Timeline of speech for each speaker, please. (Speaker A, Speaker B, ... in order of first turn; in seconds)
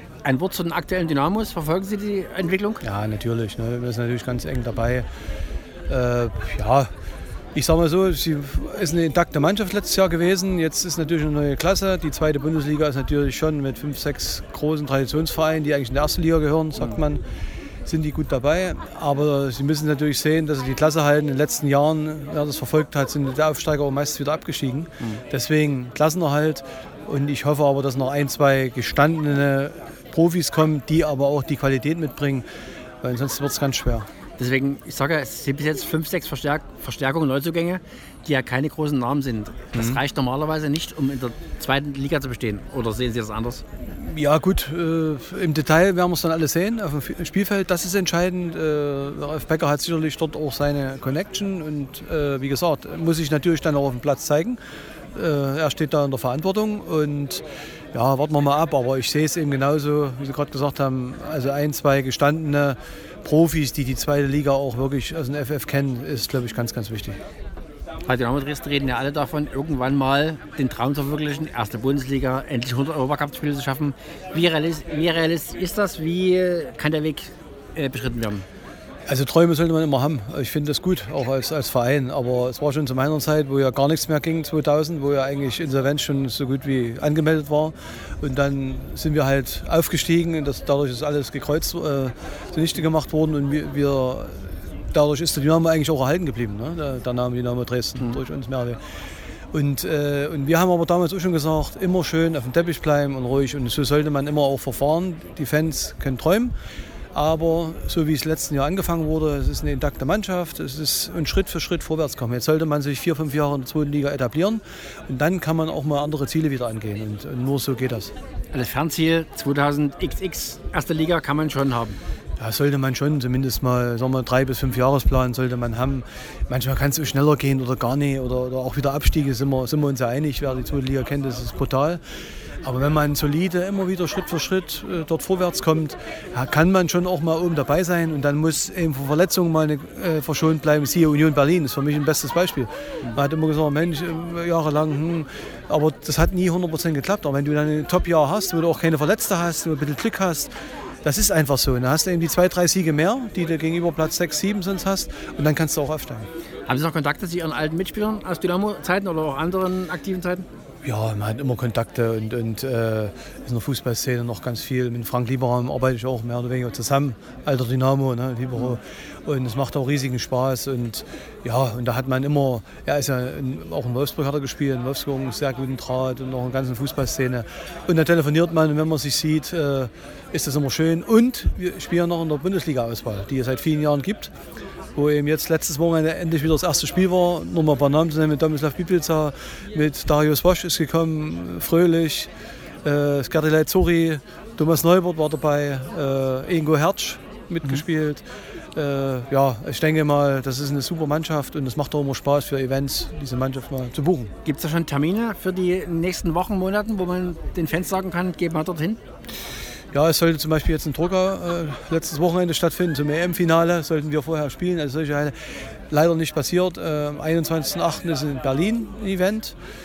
Speaker A: 0.2-2.8, 34.4-43.6, 68.0-78.4, 118.5-122.0, 156.7-160.4, 204.4-209.0
Speaker B: 2.8-5.0, 5.9-6.9, 7.5-17.2, 17.8-32.5, 33.0-34.1, 39.7-40.0, 43.9-54.6, 55.1-67.2, 79.1-98.8, 99.5-106.5, 107.1-118.1, 122.4-132.0, 132.6-150.5, 151.0-156.3, 160.8-184.3, 184.9-192.3, 192.8-198.2, 198.7-204.3, 209.9-215.3, 215.9-219.6